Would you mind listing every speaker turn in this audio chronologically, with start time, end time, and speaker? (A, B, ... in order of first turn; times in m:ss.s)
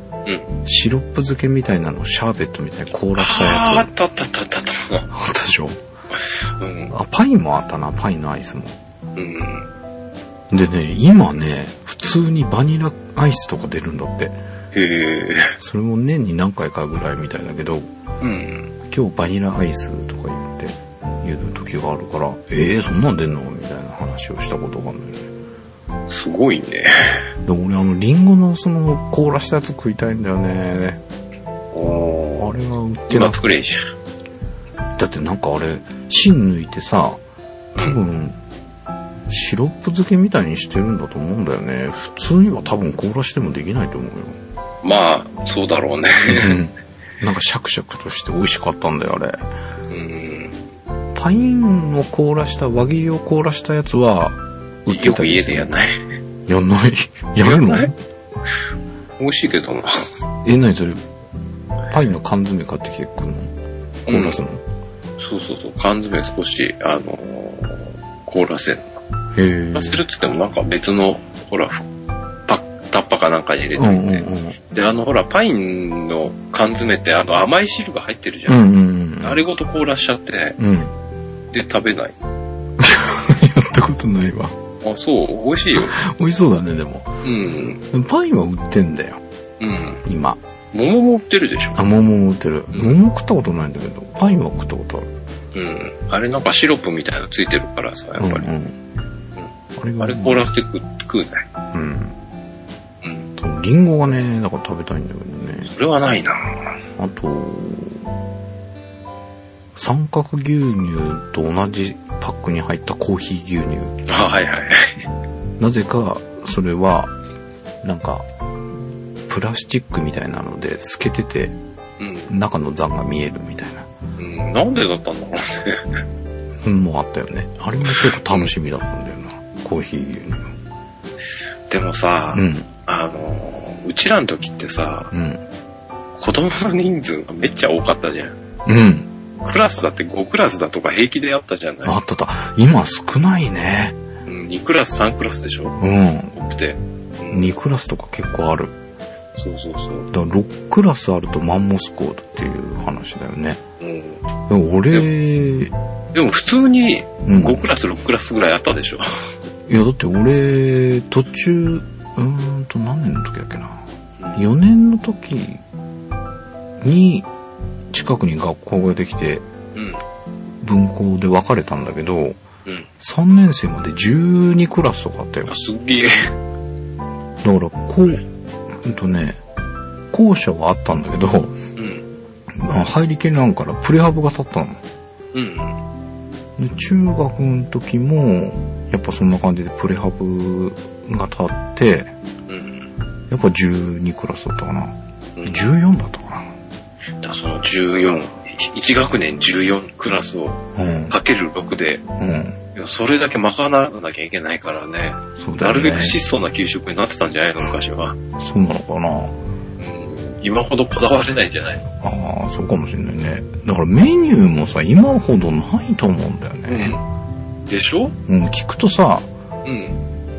0:00.6-0:03.9 A
0:03.2-0:05.1 B
0:05.1-0:05.8 A
0:06.6-0:06.9 B
0:06.9-0:08.8 A
0:09.2-0:09.7 B
0:10.5-0:14.4 A
0:14.7-0:15.6 B
0:15.6-0:17.9 A
0:18.2-0:18.7 B
0:18.9-0:25.3 A
0:26.1-0:27.2 B
0:27.4-0:31.0 A
0:31.7-0:32.5 B
0:32.4-0:33.4 A
0:33.1-0:33.9 B
0:35.0-0:37.2 A
0:37.8-0:38.4 A
0:39.3-0:44.4 A
0:44.8-0:46.6 B
0:46.3-0:49.4 A
0:49.9-0:50.6 B
0:51.2-0:55.7 A
0:54.9-0:56.0 B
0:56.5-0:57.9 A
0:57.4-0:57.9 B
0:59.2-0:59.9 B
1:00.4-1:01.0 A
1:01.9-1:03.5 A
1:04.1-1:04.4 B
1:04.1-1:04.6 A
1:05.2-1:09.0 B
1:09.4-1:10.0 A
1:09.7-1:11.9 B
1:12.5-1:18.7 B
1:13.8-1:14.6 A
1:18.5-1:19.4 A
1:19.2-1:20.6 B
1:20.6-1:20.9 A
1:21.5-1:22.2 B
1:22.8-1:24.5 A
1:24.8-1:26.0 B
1:25.8-1:27.1 A
1:27.2-1:27.8 B
1:27.9-1:29.2 A
1:29.6-1:30.0 B
1:30.0-1:30.4 A
1:30.7-1:31.8 B
1:31.8-1:35.1 A
1:35.5-1:38.5 B
1:38.2-1:38.8 A
1:39.4-1:41.5 B
1:39.8-1:40.5 A
1:41.7-1:42.2 A
1:43.4-1:45.7 A
1:45.7-1:46.6 B
1:47.0-1:48.0 A
1:49.8-1:53.9 A
1:54.1-1:55.0 B
1:55.6-1:57.1 A
1:57.8-1:58.3 A
1:59.3-2:01.6 A
2:02.0-2:02.3 B
2:02.3-2:03.9 A
2:04.2-2:06.0 B
2:06.6-2:10.5 A
2:07.9-2:08.5 B
2:11.7-2:15.1 B
2:12.3-2:12.7 A
2:15.1-2:15.4 A
2:16.2-2:18.4 B
2:18.7-2:19.1 A
2:19.4-2:22.0 B
2:21.8-2:24.0 A
2:24.3-2:25.8 B
2:25.8-2:26.4 A
2:26.3-2:27.5 B
2:27.3-2:28.7 A
2:29.4-2:30.1 B
2:30.1-2:33.6 A
2:33.8-2:34.2 B
2:34.5-2:35.7 A
2:36.1-2:39.3 B
2:37.2-2:37.6 A
2:39.7-2:43.8 A
2:44.4-2:45.6 A
2:46.8-2:47.3 A
2:47.9-2:49.4 A
2:49.8-2:50.0 B
2:50.6-2:52.4 A
2:53.0-2:55.5 A
2:55.5-2:56.3 B
2:57.4-2:59.4 A
3:00.1-3:01.6 A
3:01.8-3:02.1 B
3:02.5-3:04.8 A
3:05.3-3:05.8 B
3:06.6-3:12.1 A
3:12.5-3:12.9 B
3:13.3-3:16.5 A
3:15.4-3:15.6 B
3:17.2-3:22.0 B
3:20.8-3:21.2 A
3:22.2-3:22.6 A
3:22.8-3:28.2 B
3:25.4-3:26.2 A
3:28.4-3:29.4 A
3:29.8-3:31.9 B
3:32.0-3:37.0 A
3:36.7-3:37.0 B
3:37.7-3:38.2 B
3:38.3-3:39.3 A
3:39.6-3:40.0 B